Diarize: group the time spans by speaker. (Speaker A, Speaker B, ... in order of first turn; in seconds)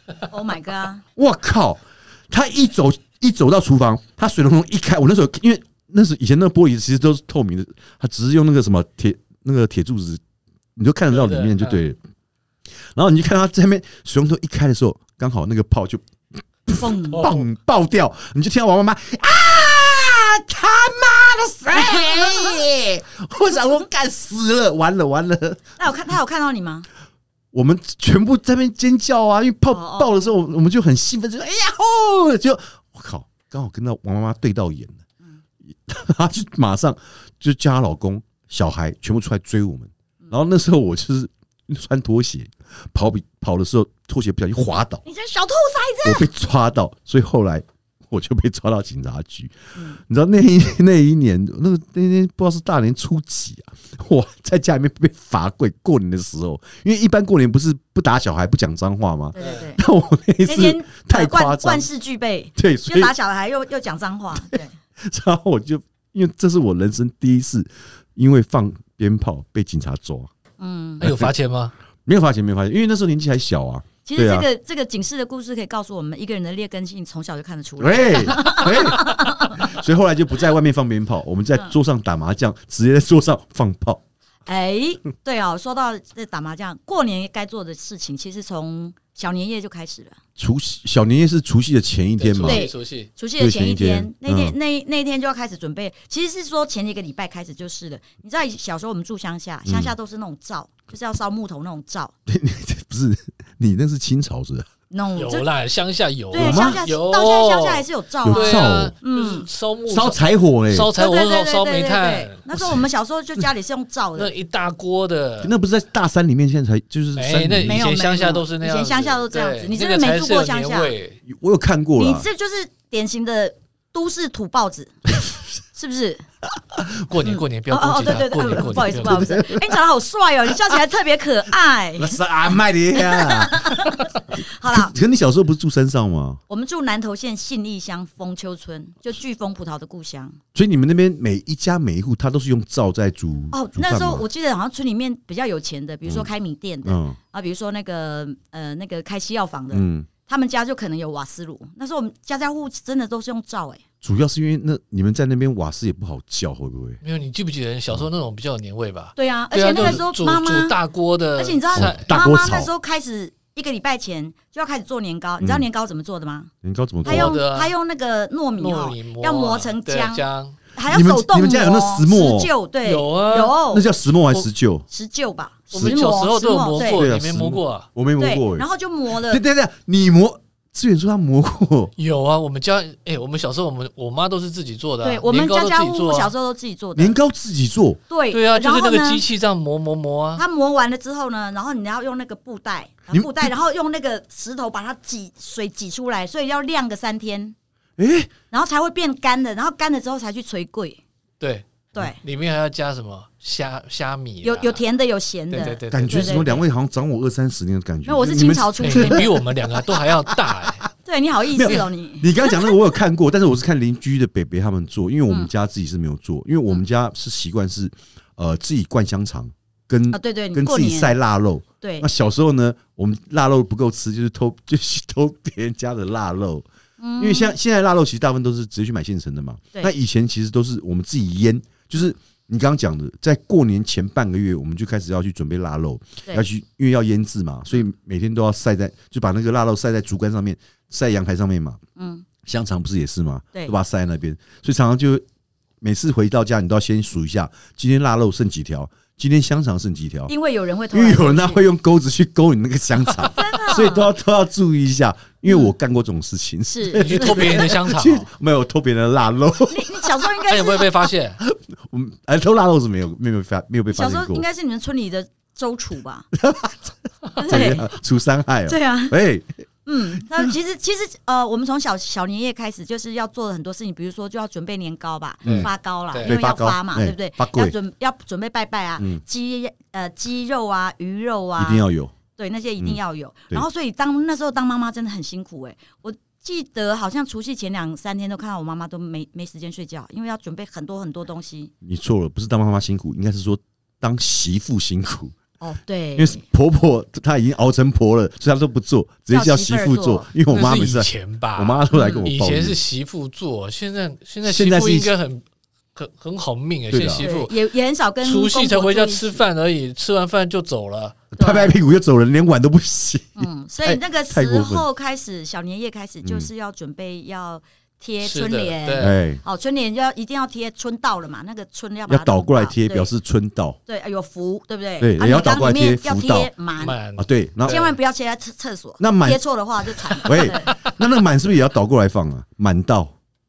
Speaker A: 0.3-1.0, 16.8-17.3, 25.8-26.9, 29.7-30.1, 45.0-46.3, 59.4-59.8, 60.4-64.7, 70.6-71.1, 74.0-79.7, 84.5-90.2, 92.4-102.1, 104.9-105.5, 106.3-109.5, 111.0-114.3, 117.7-120.9, 122.0-124.9, 125.8-126.2, 127.2-132.2, 132.9-134.9, 136.5-140.4, 143.5-153.8, 159.2-160.8, 161.4-166.5, 167.0-170.2, 170.7-173.9, 174.9-177.1, 178.2-179.4, 185.0-187.2, 188.1-189.2, 190.4-197.6, 198.5-201.0, 201.9-202.2, 204.4-206.5, 208.1-209.3, 211.1-212.7, 220.1-221.2, 221.8-222.1, 227.0-227.6, 242.0-242.2, 250.3-251.7, 253.2-254.1, 255.5-255.7, 256.7-257.7, 259.7-260.9, 263.9-266.3, 267.4-267.9, 268.7-269.2, 269.9-281.8, 282.4-291.7, 295.6-296.4, 299.3-300.3, 301.9-302.3, 307.2-309.4, 311.4-311.8, 313.4-323.1, 323.9-327.0, 327.7-330.7
Speaker B: 1.2-10.2, 10.8-12.0, 12.9-16.0, 16.7-25.8, 27.5-35.0, 35.6-45.0, 46.0-61.9, 62.6-63.1, 64.5-70.3, 71.0-71.3, 72.0-74.5, 77.8-84.0, 90.4-92.7, 93.4-94.6, 99.7-99.9, 102.3-104.7, 106.3-106.8, 108.2-109.0, 109.9-110.9, 112.5-112.8, 115.4-117.8, 121.2-122.3, 128.5-129.8, 132.0-136.4, 140.5-144.2, 146.8-147.2, 149.7-150.1, 154.0-157.0, 161.8-162.7, 166.6-167.4, 170.9-172.5, 173.7-174.9, 175.7-176.0, 176.8-181.9, 187.0-188.0, 193.1-193.5, 198.0-198.3, 205.9-210.7, 211.5-226.7, 227.2-241.8, 242.4-245.2, 245.8-250.3, 250.9-260.2, 261.4-264.5, 266.3-269.5, 270.1-270.5, 275.4-275.7, 276.2-277.8, 281.6-282.1, 291.8-295.4, 296.2-302.8, 304.4-305.1, 306.9-307.2, 311.4-314.9, 316.2-316.5, 319.0-319.4, 322.1-323.8, 325.0-326.5, 327.2-327.8, 329.0-329.4, 330.2-333.1
Speaker C: 11.1-11.8, 59.4-59.7, 71.0-71.8, 92.2-93.1, 105.2-112.5, 114.2-115.5, 117.1-121.2, 127.0-129.3, 157.0-162.1, 167.1-167.7, 168.6-170.6, 172.8-173.6, 175.7-177.9, 182.0-186.3, 188.3-190.4, 201.4-204.8, 205.5-206.7, 208.8-210.9, 256.9-258.3, 260.5-261.4, 275.4-276.4, 300.5-305.4, 305.9-307.6, 308.2-311.3, 318.2-319.2, 326.8-328.0, 330.1-330.9